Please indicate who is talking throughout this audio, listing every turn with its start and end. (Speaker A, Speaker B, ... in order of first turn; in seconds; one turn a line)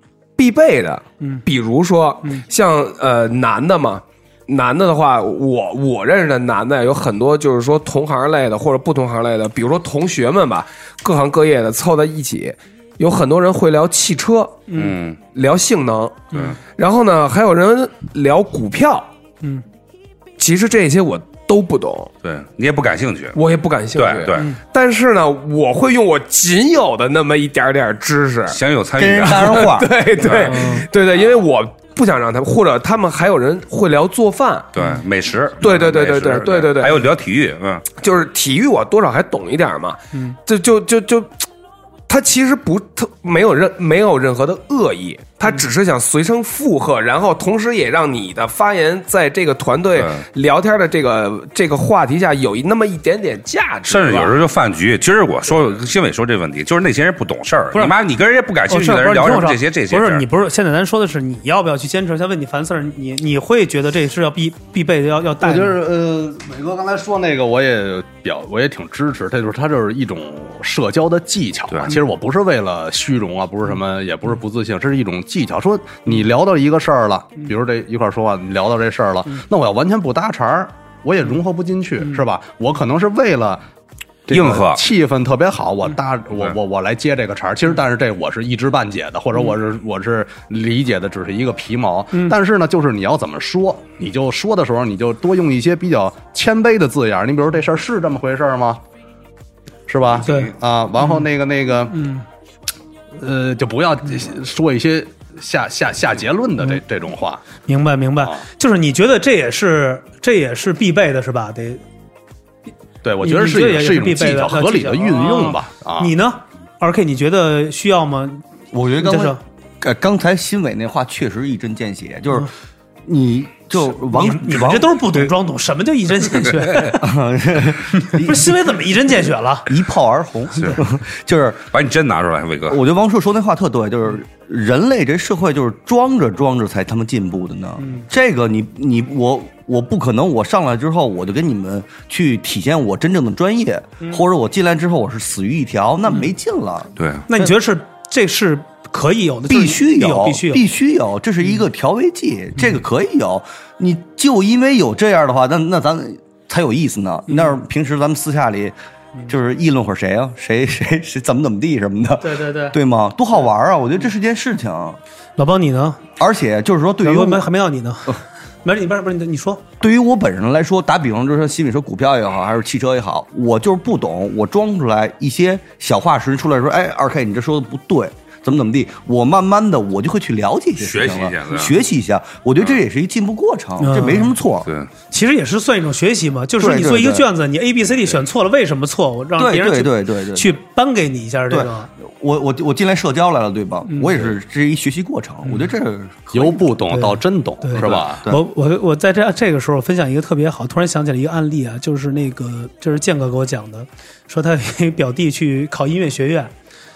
Speaker A: 0.4-14.6
Speaker B: 14.7-14.9
Speaker C: 14.7-15.2
Speaker A: 15.3-19.1
Speaker A: 20.4-22.1
Speaker C: 22.2-23.4
Speaker A: 23.4-28.6
Speaker C: 23.9-24.5
Speaker C: 28.5-30.6
Speaker D: 29.0-30.0
Speaker A: 29.2-34.7
Speaker B: 30.5-30.9
Speaker C: 34.7-37.9
Speaker A: 35.6-37.0
Speaker A: 38.0-41.5
Speaker A: 42.1-54.4
Speaker C: 49.9-50.2
Speaker C: 53.9-60.2
Speaker B: 58.7-65.8
Speaker E: 65.4-83.6
Speaker C: 71.7-71.9
Speaker E: 84.3-98.8
Speaker C: 84.3-84.8
Speaker E: 99.9-102.0
Speaker C: 100.2-100.5
Speaker B: 100.2-101.2
Speaker B: 101.9-102.2
Speaker E: 103.2-107.4
Speaker B: 107.7-111.8
Speaker E: 113.0-116.1
Speaker B: 113.2-118.4
Speaker D: 118.7-122.5
Speaker B: 119.0-119.4
Speaker D: 123.0-125.3
Speaker B: 124.0-127.0
Speaker D: 126.9-128.6
Speaker B: 128.0-129.8
Speaker D: 129.7-131.7
Speaker C: 131.7-132.8
Speaker D: 132.7-147.5
Speaker B: 137.8-138.1
Speaker C: 147.0-147.3
Speaker B: 147.3-150.7
Speaker D: 149.5-158.7
Speaker B: 157.3-157.6
Speaker D: 159.3-165.0
Speaker B: 162.2-162.8
Speaker B: 165.4-166.0
Speaker D: 166.2-167.5
Speaker B: 167.0-169.6
Speaker D: 169.8-184.7
Speaker C: 180.8-181.8
Speaker B: 183.8-184.3
Speaker C: 184.6-184.9
Speaker B: 185.1-191.9
Speaker D: 186.6-187.3
Speaker D: 189.4-190.6
Speaker D: 191.5-196.8
Speaker B: 193.9-194.3
Speaker B: 195.4-195.7
Speaker E: 196.3-198.2
Speaker B: 196.9-206.5
Speaker D: 197.8-198.4